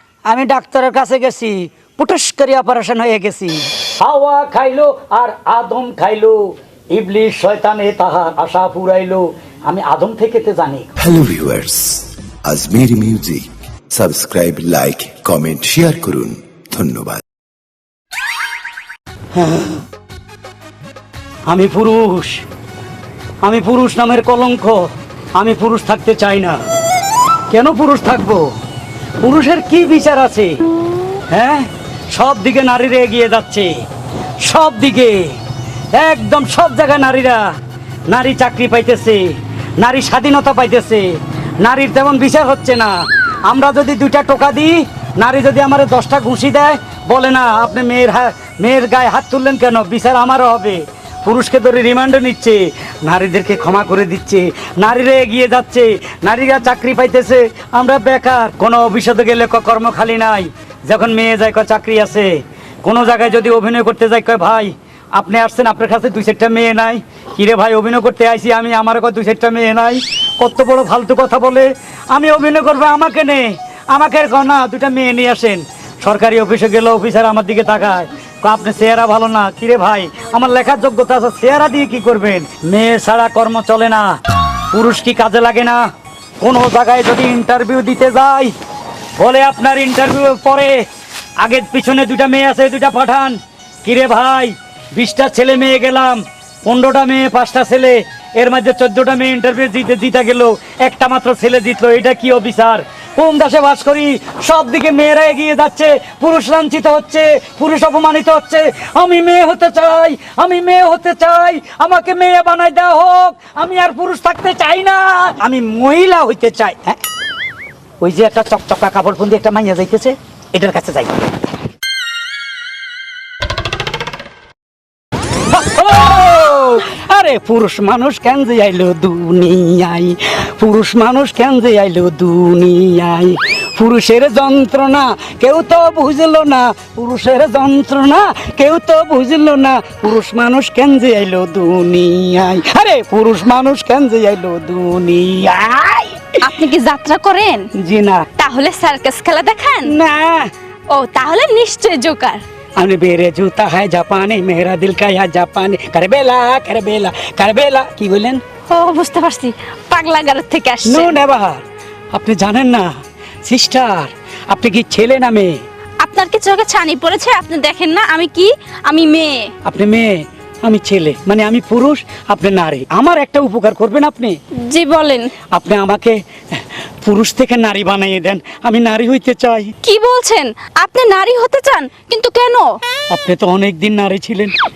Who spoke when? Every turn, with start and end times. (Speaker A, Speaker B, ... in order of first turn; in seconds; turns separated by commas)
Speaker A: 0.2-6.4, Speaker A: 6.9-10.9, Speaker B: 11.0-17.2, Speaker A: 19.3-19.8, Speaker A: 21.5-22.4, Speaker A: 23.4-24.8, Speaker A: 25.4-26.6, Speaker A: 27.5-28.5, Speaker A: 29.2-30.5, Speaker A: 31.3-33.7, Speaker A: 34.4-35.3, Speaker A: 35.9-37.4, Speaker A: 38.1-39.2, Speaker A: 39.8-41.0, Speaker A: 41.6-42.9, Speaker A: 43.5-84.1, Speaker A: 84.7-85.8, Speaker A: 86.4-88.5, Speaker A: 89.2-90.8, Speaker A: 91.4-117.0, Speaker A: 118.0-121.1, Speaker A: 125.5-146.4, Speaker C: 146.4-147.7, Speaker A: 147.8-148.3, Speaker C: 148.4-150.0, Speaker A: 149.8-150.5, Speaker C: 150.9-152.4, Speaker A: 152.8-158.4, Speaker C: 158.7-161.2, Speaker A: 160.8-162.9, Speaker A: 163.4-165.6, Speaker C: 166.0-169.4, Speaker A: 169.6-174.3, Speaker C: 174.7-175.3, Speaker A: 175.5-179.7, Speaker C: 179.8-182.7, Speaker A: 183.1-184.5